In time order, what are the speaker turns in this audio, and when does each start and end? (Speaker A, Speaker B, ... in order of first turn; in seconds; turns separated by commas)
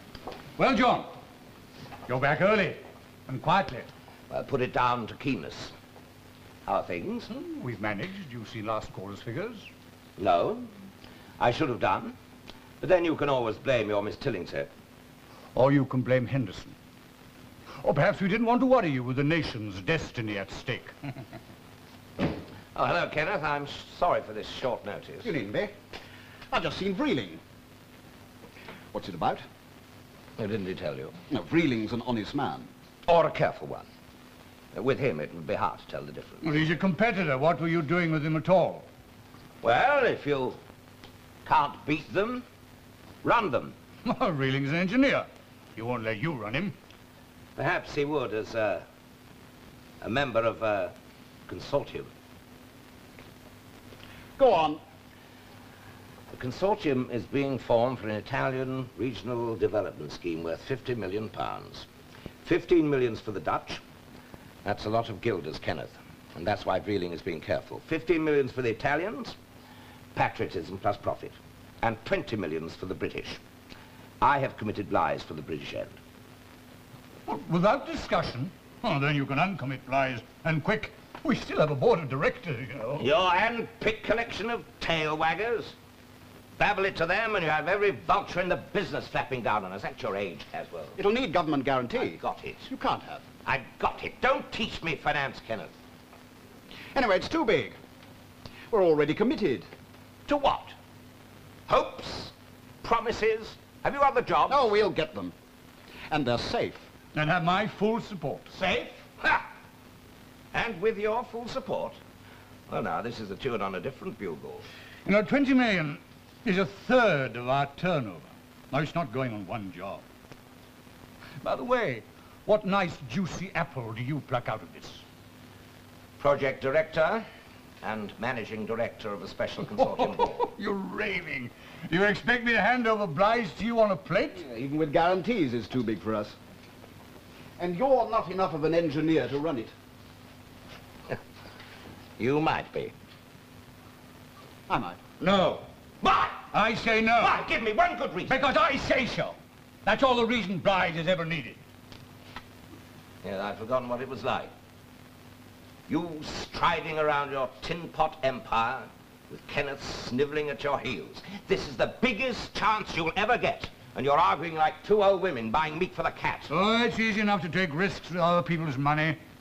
Speaker A: 0.6-1.1, Speaker A: 2.1-3.9, Speaker B: 4.3-5.7, Speaker B: 6.7-7.3, Speaker A: 7.3-9.7, Speaker B: 10.2-10.7, Speaker B: 11.4-12.2, Speaker B: 12.8-14.7, Speaker A: 15.5-16.8, Speaker A: 17.8-20.9, Speaker B: 22.7-25.3, Speaker C: 25.2-25.7, Speaker C: 26.5-27.4, Speaker C: 28.9-29.4, Speaker B: 30.4-31.1, Speaker C: 31.3-32.7, Speaker B: 33.1-33.9, Speaker B: 34.7-36.6, Speaker A: 36.4-38.9, Speaker B: 39.6-40.6, Speaker B: 41.4-42.4, Speaker B: 43.2-43.8, Speaker A: 44.0-46.7, Speaker B: 47.6-48.8, Speaker B: 50.0-50.9, Speaker B: 51.5-52.1, Speaker C: 54.4-54.8, Speaker B: 56.3-61.9, Speaker B: 62.4-63.8, Speaker B: 64.6-69.4, Speaker B: 70.1-73.4, Speaker B: 74.2-76.0, Speaker A: 77.2-83.0, Speaker B: 83.0-85.7, Speaker B: 86.6-91.0, Speaker C: 91.0-93.2, Speaker B: 92.0-92.7, Speaker B: 93.4-95.7, Speaker C: 96.9-97.8, Speaker C: 98.7-99.7, Speaker B: 100.3-100.7, Speaker B: 101.7-104.7, Speaker C: 104.5-105.3, Speaker C: 106.1-106.9, Speaker A: 107.1-108.5, Speaker B: 108.5-109.5, Speaker B: 110.5-112.0, Speaker B: 112.7-114.7, Speaker A: 115.0-120.0, Speaker A: 121.4-125.0, Speaker B: 126.2-127.2, Speaker B: 127.8-130.4, Speaker A: 129.7-134.4, Speaker C: 134.3-136.3, Speaker C: 137.6-139.7, Speaker B: 142.2-142.9, Speaker C: 144.7-145.0, Speaker A: 145.2-145.7, Speaker B: 146.0-146.5, Speaker A: 146.5-147.4, Speaker B: 147.2-148.4, Speaker A: 148.3-151.6, Speaker B: 153.2-154.5, Speaker B: 155.9-166.5, Speaker A: 166.5-169.2